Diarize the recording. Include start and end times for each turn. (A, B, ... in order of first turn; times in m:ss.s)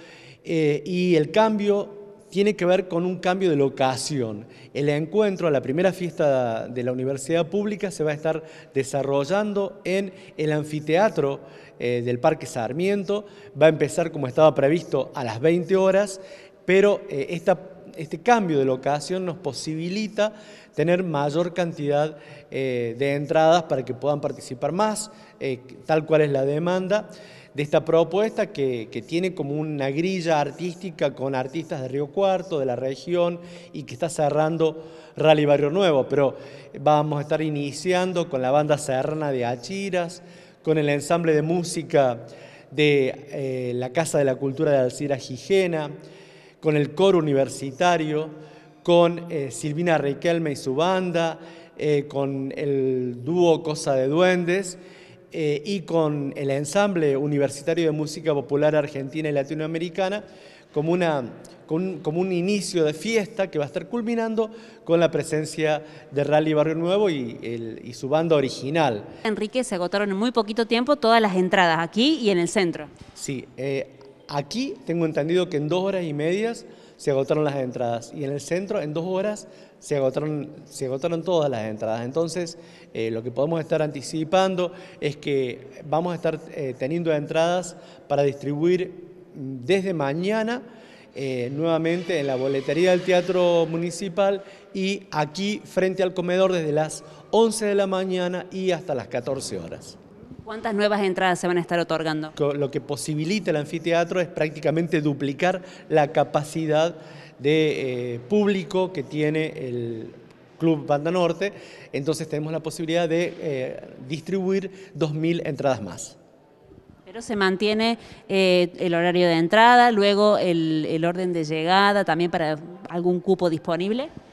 0:00.4-0:45.9 A
0:46.6-0:54.8 A
0:55.3-1:09.1 A
1:09.2-1:12.9 B
1:13.2-1:30.6 A
1:31.2-1:40.0 A
1:40.5-1:42.4 B
1:42.4-1:56.2 A
1:57.1-2:04.1 B